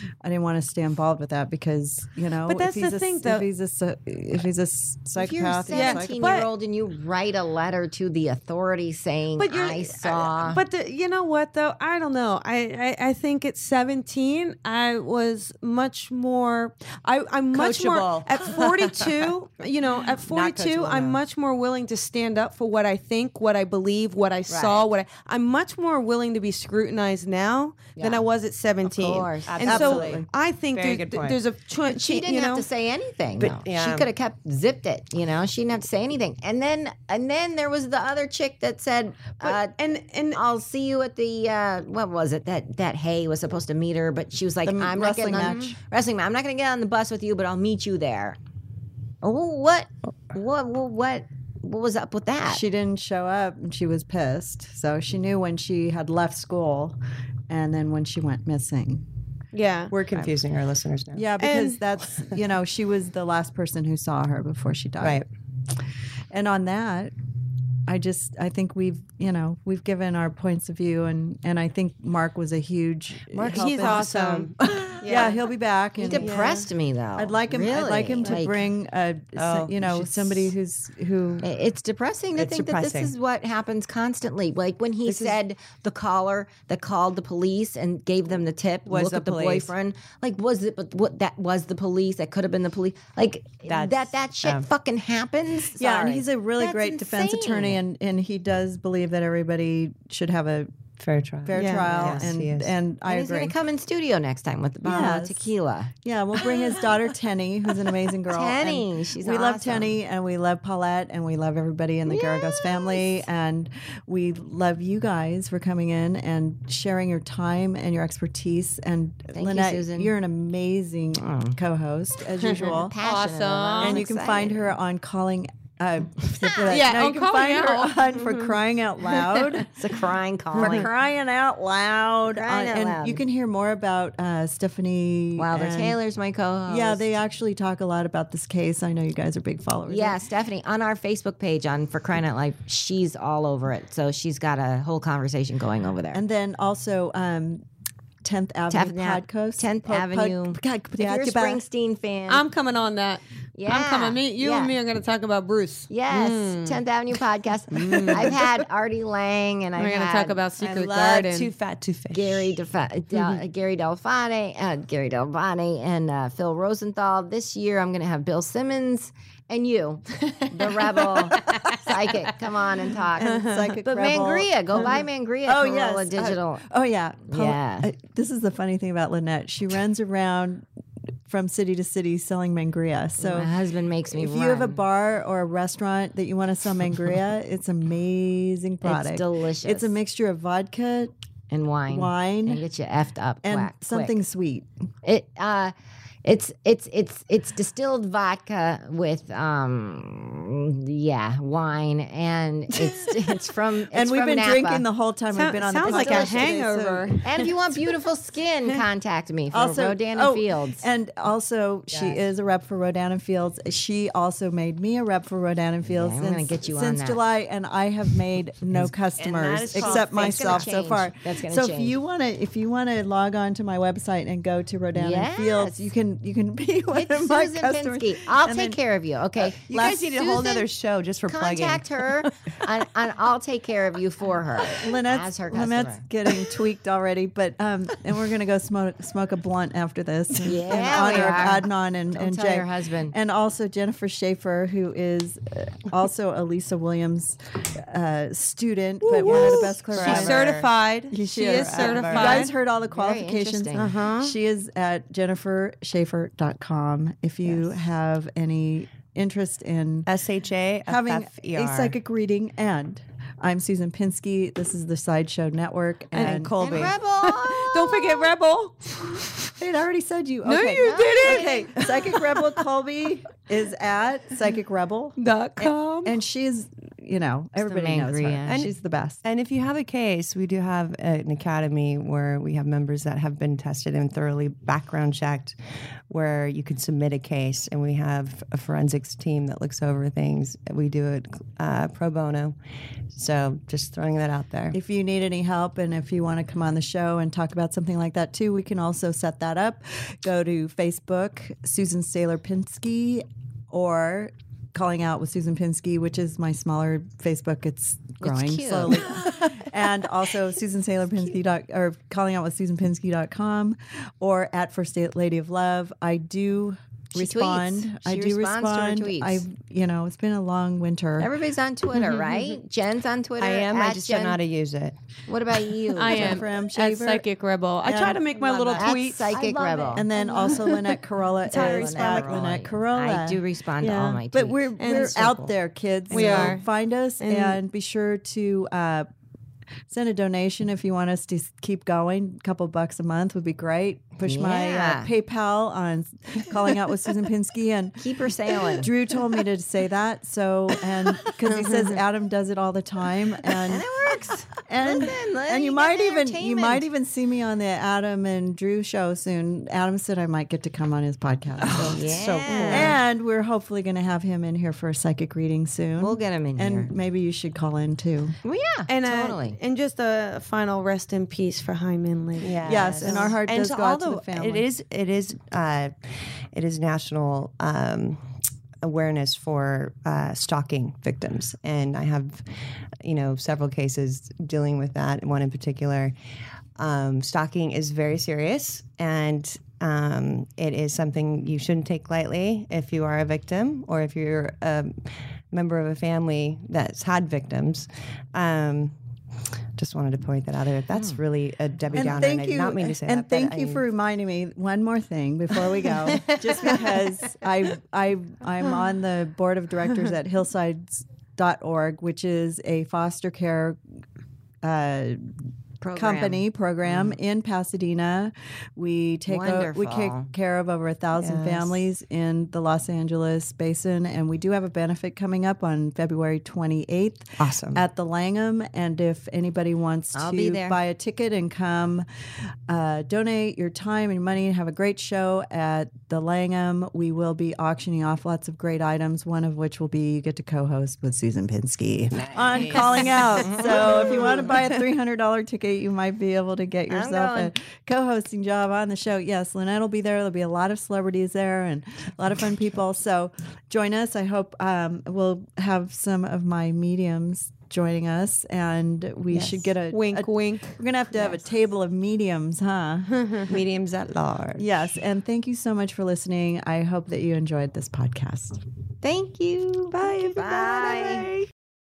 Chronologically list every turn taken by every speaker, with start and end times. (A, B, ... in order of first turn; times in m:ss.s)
0:00.2-0:06.5 A
0:02.5-0:03.5 B
0:05.2-0:10.6 C
0:05.7-0:06.5 B
0:09.4-0:32.7 B
0:17.5-0:19.3 D
0:20.1-0:21.2 D
0:24.5-0:24.8 D
0:28.8-0:29.8 C
0:29.5-0:31.4 D
0:29.6-0:30.3 A
0:32.0-0:39.8 C
0:33.4-0:34.1 D
0:39.4-0:40.4 B
0:40.3-0:48.4 C
0:44.6-0:45.8 A
0:49.2-0:52.6 C
0:52.5-0:57.0 A
0:57.5-0:59.0 A
0:59.5-0:59.9 B
0:59.9-1:01.3 D
1:01.1-1:05.2 A
1:01.4-1:01.8 B
1:06.3-1:07.1 A
1:07.9-1:16.3 A
1:13.3-1:15.3 D
1:13.5-1:15.4 B
1:16.0-1:18.6 C
1:16.1-1:16.7 B
1:17.2-1:21.5 A
1:19.4-1:20.5 D
1:21.4-1:37.8 C
1:22.4-1:23.1 D
1:25.0-1:25.4 D
1:28.9-1:29.7 D
1:29.0-1:29.3 A
1:33.7-1:34.7 D
1:35.8-1:40.7 A
1:41.0-1:42.7 D
1:41.4-1:43.6 A
1:41.5-1:42.1 B
1:43.1-1:45.9 C
1:44.8-1:45.5 A
1:46.0-2:02.9 A
1:48.3-1:49.9 C
1:52.1-1:53.2 C
1:59.3-2:00.1 C
2:01.2-2:01.6 C
2:02.5-2:04.0 B
2:02.9-2:04.6 C
2:03.8-2:09.7 A
2:06.7-2:08.5 B
2:09.7-2:10.9 C
2:10.5-2:16.0 A
2:10.6-2:10.9 B
2:12.3-2:13.2 C
2:15.4-2:17.1 C
2:16.7-2:20.2 A
2:19.9-2:26.2 C
2:26.1-2:27.6 A
2:28.2-2:31.6 A
2:28.7-2:32.4 C
2:32.3-2:36.8 B
2:33.6-2:34.8 C
2:35.9-2:40.4 C
2:37.7-2:38.4 B
2:39.8-2:41.5 B
2:40.6-2:42.5 D
2:42.1-2:56.6 C
2:53.2-3:00.6 A
2:53.2-2:53.8 B
2:54.7-2:55.0 B
2:57.3-2:57.9 C
3:01.3-3:03.6 A
3:03.2-3:04.8 C
3:04.1-3:11.1 A
3:08.8-3:10.0 C
3:11.5-3:14.2 C
3:11.9-3:12.6 A
3:13.4-3:14.7 A
3:15.0-3:15.7 C
3:16.2-3:24.8 C
3:22.8-3:23.2 A
3:23.9-3:27.1 A
3:25.3-3:27.6 B
3:25.8-3:26.4 C
3:27.2-3:30.8 C
3:29.5-3:48.8 A
3:31.9-3:32.2 D
3:35.9-3:37.2 C
3:38.7-3:40.8 D
3:39.8-3:42.0 C
3:45.0-3:45.9 C
3:46.9-3:49.6 C
3:49.6-3:52.3 D
3:49.7-3:50.6 A
3:51.3-3:56.0 C
3:54.7-4:20.1 A
4:00.5-4:03.1 C
4:09.0-4:12.5 B
4:09.2-4:10.7 D
4:11.7-4:12.5 D
4:12.9-4:13.9 C
4:13.7-4:14.3 B
4:20.1-4:22.0 D
4:20.8-4:26.9 A
4:26.2-4:26.4 B
4:26.2-4:27.0 D
4:26.6-4:28.3 C
4:27.2-4:29.5 B
4:29.6-4:39.2 A
4:30.4-4:32.4 B
4:30.8-4:31.7 C
4:35.2-4:36.2 B
4:37.6-4:38.5 C
4:38.5-4:45.6 D
4:46.1-4:52.6 D
4:53.1-4:54.8 D
4:54.7-5:21.3 A
5:08.2-5:09.4 C
5:17.2-5:19.4 C
5:21.2-5:24.4 C
5:22.0-5:22.6 B
5:23.4-5:25.0 D
5:25.3-5:26.4 C
5:26.0-5:31.0 B
5:26.0-5:27.2 A
5:27.8-5:28.9 A
5:28.7-5:30.1 C
5:29.9-5:39.1 A
5:31.5-5:34.7 C
5:31.5-5:32.3 B
5:34.8-5:35.5 B
5:36.1-5:36.6 D
5:36.1-5:36.7 B
5:37.2-5:37.6 B
5:39.9-5:48.1 A
5:44.2-5:45.1 C
5:48.0-5:48.9 C
5:48.8-6:02.0 A
5:51.4-5:51.9 B
5:53.7-5:56.8 C
6:01.6-6:03.0 D
6:01.8-6:02.9 C
6:02.5-6:03.0 B
6:02.7-6:08.4 A
6:06.0-6:06.9 C
6:08.4-6:09.6 C
6:08.9-6:13.3 B
6:12.4-6:18.3 D
6:12.6-6:14.7 A
6:12.9-6:13.3 C
6:18.8-6:22.4 D
6:23.0-6:26.1 D
6:26.8-6:38.9 D
6:39.8-6:43.8 D
6:41.9-6:53.8 A
6:46.3-6:46.8 B
6:54.6-6:55.3 A
6:55.8-6:56.4 C
6:55.9-7:12.1 A
6:59.3-7:00.3 C
7:01.2-7:01.8 D
7:07.4-7:07.8 D
7:10.2-7:10.8 C
7:12.7-7:43.2 A
7:23.4-7:23.9 C
7:26.9-7:27.4 D
7:39.3-7:39.7 D
7:39.9-7:40.8 B
7:43.5-7:44.9 D
7:44.6-7:48.6 A
7:49.0-7:51.3 C
7:50.2-7:51.0 D